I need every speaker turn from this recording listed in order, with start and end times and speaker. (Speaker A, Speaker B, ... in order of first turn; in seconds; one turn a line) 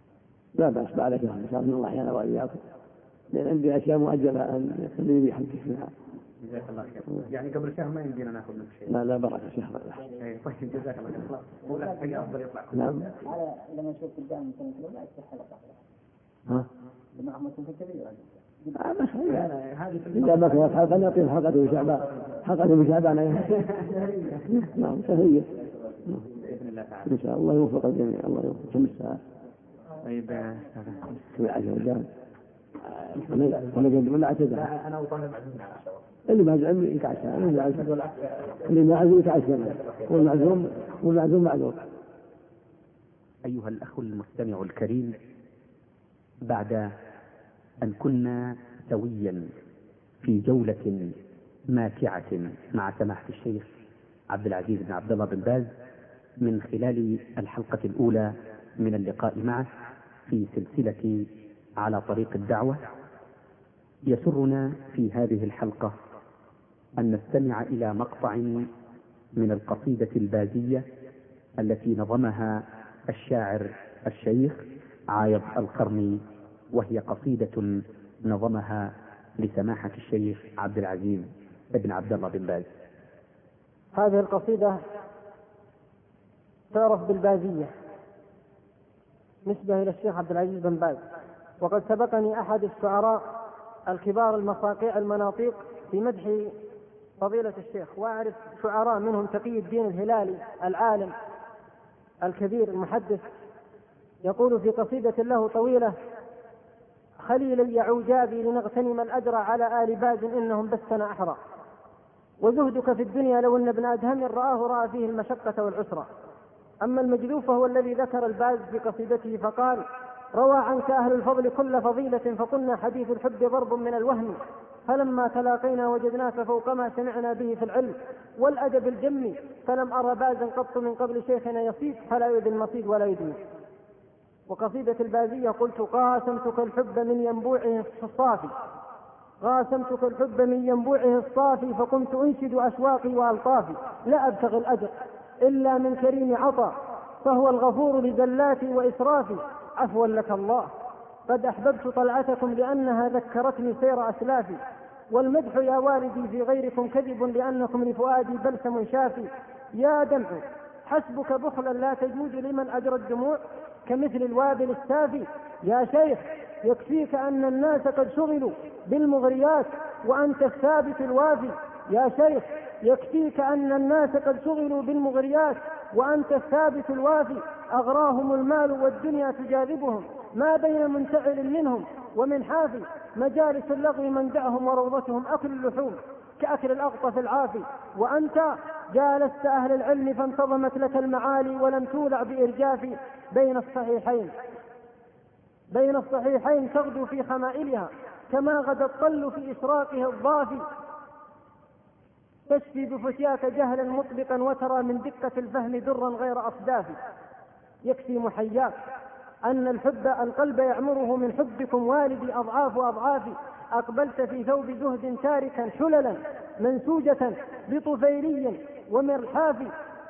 Speaker A: 0.6-2.6
Speaker A: 3.3-5.9
Speaker B: 6.4-9.0
Speaker A: 8.9-10.0
Speaker B: 10.2-13.2
Speaker C: 11.7-12.2
Speaker A: 12.7-13.1
Speaker C: 13.2-15.8
Speaker C: 17.2-18.8
Speaker A: 18.7-19.5
Speaker B: 19.3-20.9
Speaker A: 20.1-23.6
Speaker B: 23.5-24.4
Speaker A: 24.5-25.5
Speaker B: 26.2-27.2
Speaker A: 27.1-29.2
Speaker B: 30.0-31.2
Speaker A: 31.3-32.1
Speaker A: 32.9-34.7
Speaker B: 33.1-36.0
Speaker A: 36.3-37.9
Speaker B: 37.4-38.7
Speaker A: 38.6-41.8
Speaker B: 39.6-40.5
Speaker B: 43.5-45.2
Speaker B: 46.5-46.9
Speaker B: 47.8-49.5
Speaker B: 50.2-51.2
Speaker B: 51.7-53.7
Speaker B: 54.3-55.7
Speaker B: 56.4-59.7
Speaker B: 60.3-61.3
Speaker B: 61.8-62.8
Speaker B: 64.1-66.0
Speaker B: 67.0-68.7
Speaker B: 69.4-70.9
Speaker B: 71.6-76.2
Speaker B: 76.7-82.7
Speaker D: 84.0-84.8
Speaker D: 86.7-87.7
Speaker D: 89.5-91.0
Speaker D: 91.6-93.2
Speaker D: 93.9-96.5
Speaker D: 97.2-101.1
Speaker D: 102.2-103.2
Speaker D: 104.2-106.0
Speaker D: 107.2-111.4
Speaker D: 112.4-116.1
Speaker D: 116.8-133.4
Speaker D: 134.5-138.6
Speaker D: 139.4-150.7
Speaker D: 151.3-154.6
Speaker D: 155.1-194.3
Speaker D: 195.7-200.6
Speaker D: 202.5-207.0
Speaker D: 207.8-208.8
Speaker D: 209.4-219.7